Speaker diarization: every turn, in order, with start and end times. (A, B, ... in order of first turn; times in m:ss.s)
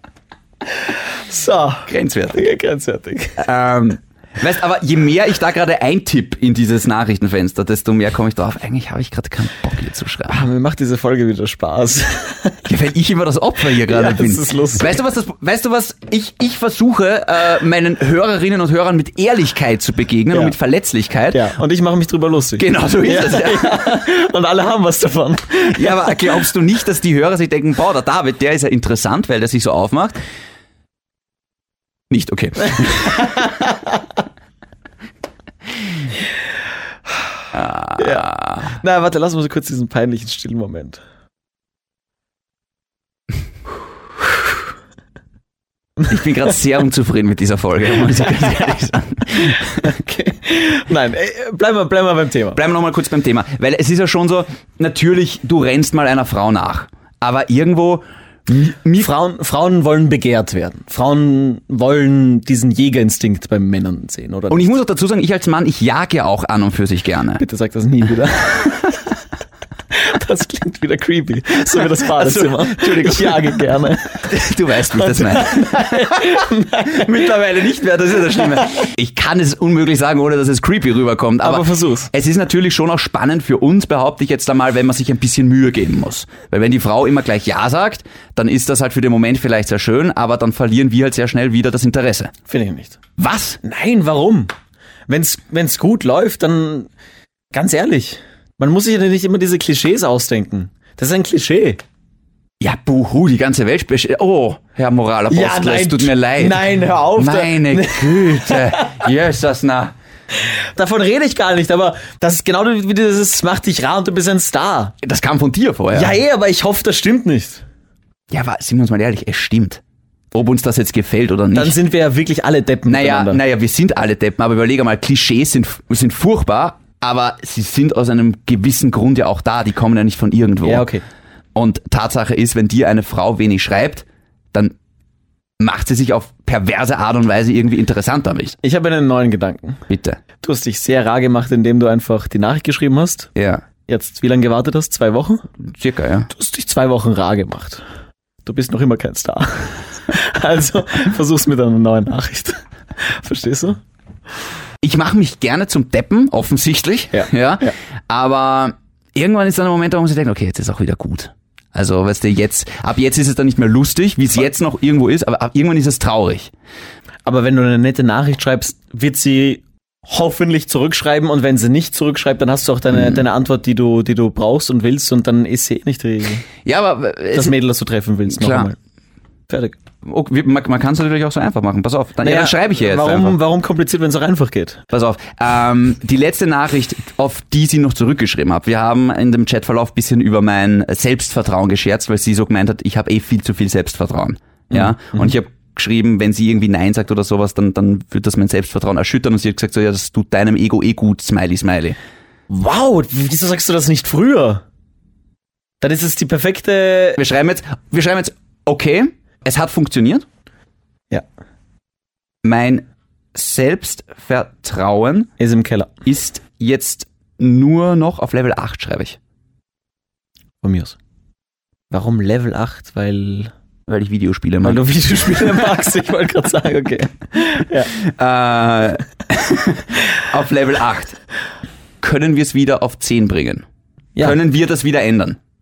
0:01.3-0:03.4 A
0:01.9-0:02.4 B
0:03.4-0:10.4 B
0:10.3-0:12.6 A
0:12.7-0:21.4 B
0:13.8-0:15.0 A
0:20.3-0:20.6 A
0:21.3-0:26.4 A
0:22.6-0:23.8 B
0:25.8-0:30.2 B
0:32.1-0:33.4 B
0:37.5-0:38.8 B
0:38.0-0:41.0 A
0:46.1-0:49.8 B
0:49.8-0:52.6 A
0:52.6-0:59.1 B
0:59.0-1:04.8 A
1:04.5-1:07.4 B
1:07.4-1:09.0 A
1:09.9-1:14.2 A
1:11.8-1:13.5 B
1:14.3-1:16.3 B
1:15.0-1:17.1 A
1:16.9-1:32.3 B
1:21.4-1:22.1 A
1:32.5-1:33.0 A
1:33.2-1:33.6 B
1:33.6-1:34.5 A
1:35.1-1:36.9 A
1:37.5-1:41.8 A
1:42.6-1:49.9 B
1:45.3-1:49.1 A
1:50.8-1:55.0 A
1:55.0-1:56.2 B
1:55.9-1:57.6 A
1:58.3-1:59.8 B
2:00.3-2:01.8 B
2:01.5-2:03.4 A
2:02.9-2:10.9 B
2:10.6-2:11.0 A
2:11.6-2:14.7 B
2:15.6-2:18.6 B
2:18.6-2:19.8 A
2:19.9-2:20.2 B
2:20.4-2:23.3 A
2:23.4-2:23.6 B
2:23.9-2:25.5 A
2:25.7-2:26.3 B
2:26.3-2:27.8 A
2:28.4-2:33.8 A
2:34.8-2:46.5 B
2:37.1-2:37.7 A
2:47.3-2:56.4 A
2:52.9-2:53.2 B
2:56.7-2:57.6 B
2:57.3-2:58.8 A
2:58.3-2:58.7 B
2:59.5-2:59.8 A
3:00.0-3:03.4 B
3:02.2-3:04.8 A
3:04.9-3:22.0 B
3:14.7-3:15.3 A
3:22.5-3:24.6 A
3:25.8-3:27.2 A
3:27.2-3:30.2 B
3:32.4-3:35.3 B
3:35.4-3:35.9 A
3:36.1-3:39.2 B
3:40.6-3:41.0 A
3:41.9-3:43.5 A
3:43.9-3:45.7 B
3:44.6-3:47.9 A
3:48.2-3:51.2 B
3:52.0-3:53.6 B
3:54.2-3:55.4 B